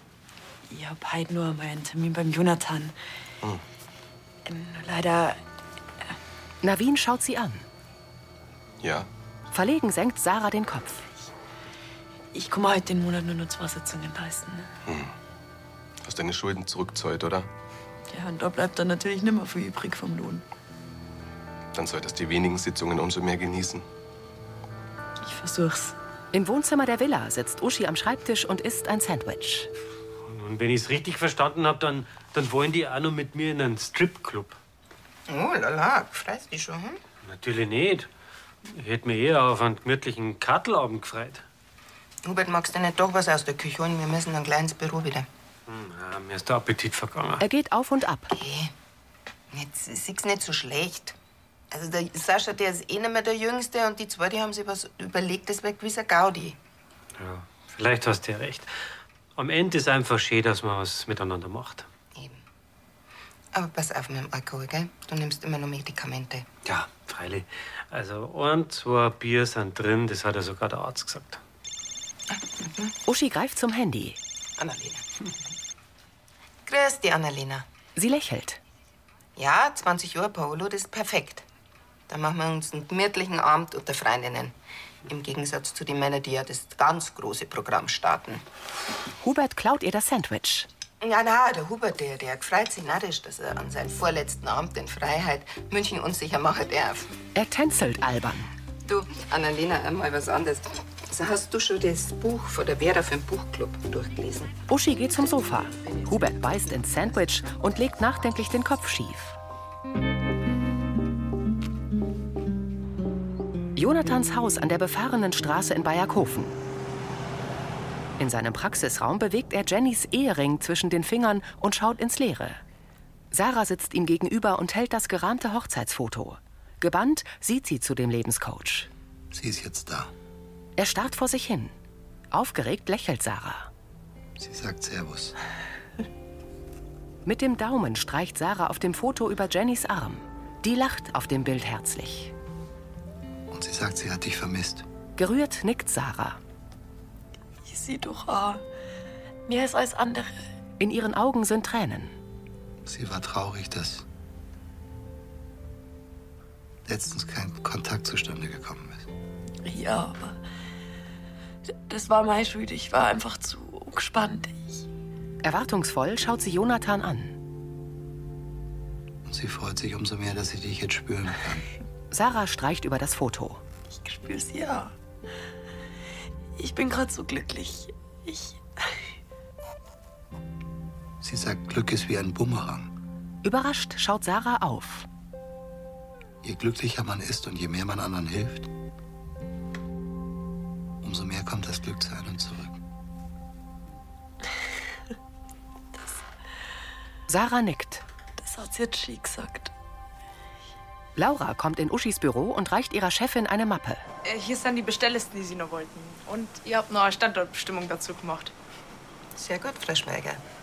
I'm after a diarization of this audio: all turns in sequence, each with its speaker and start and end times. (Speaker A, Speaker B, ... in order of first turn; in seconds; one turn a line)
Speaker A: 0.7-2.9
Speaker A: 4.5-5.4
Speaker B: 6.6-7.6
Speaker C: 8.8-9.1
Speaker B: 9.5-11.0
Speaker A: 12.3-14.7
Speaker C: 14.9-15.1
Speaker C: 16.0-17.5
Speaker A: 18.1-20.4
Speaker C: 21.7-23.8
Speaker A: 25.2-25.9
Speaker B: 26.3-29.7
Speaker D: 30.2-34.6
Speaker E: 35.3-37.0
Speaker D: 37.2-38.1
Speaker D: 38.6-41.4
Speaker E: 42.2-45.3
Speaker D: 45.7-47.4
Speaker B: 47.4-48.3
Speaker E: 48.3-48.7
Speaker E: 49.5-51.1
Speaker E: 51.7-56.6
Speaker D: 57.2-58.7
Speaker D: 59.4-61.9
Speaker E: 63.5-66.5
Speaker D: 66.6-71.4
Speaker E: 72.3-72.9
Speaker B: 73.0-74.2
Speaker E: 74.6-75.1
Speaker E: 76.7-77.6
Speaker B: 78.0-78.6
Speaker E: 79.4-81.4
Speaker E: 82.1-84.5
Speaker E: 85.0-88.4
Speaker B: 89.2-90.7
Speaker E: 91.0-97.1
Speaker B: 97.3-98.5
Speaker E: 98.8-104.5
Speaker B: 104.7-109.3
Speaker B: 113.8-116.5
Speaker B: 118.2-122.6
Speaker B: 123.3-128.9
Speaker F: 129.3-130.1
Speaker B: 130.8-131.7
Speaker B: 132.3-133.7
Speaker F: 134.4-135.3
Speaker B: 137.2-142.3
Speaker F: 143.5-144.8
Speaker B: 145.2-146.4
Speaker A: 147.6-148.6
Speaker A: 149.4-150.3
Speaker B: 150.8-152.1
Speaker F: 152.8-154.0
Speaker F: 156.8-159.1
Speaker A: 159.6-160.4
Speaker A: 161.8-164.8
Speaker B: 165.4-167.3
Speaker F: 169.2-171.7
Speaker B: 172.1-173.6
Speaker A: 173.9-174.9
Speaker A: 176.6-178.6
Speaker F: 181.2-182.9
Speaker B: 183.4-185.1
Speaker F: 186.4-188.7
Speaker F: 191.0-192.8
Speaker B: 197.3-198.0
Speaker A: 198.4-199.7
Speaker B: 201.2-204.0
Speaker G: 204.3-208.5
Speaker E: 209.3-210.4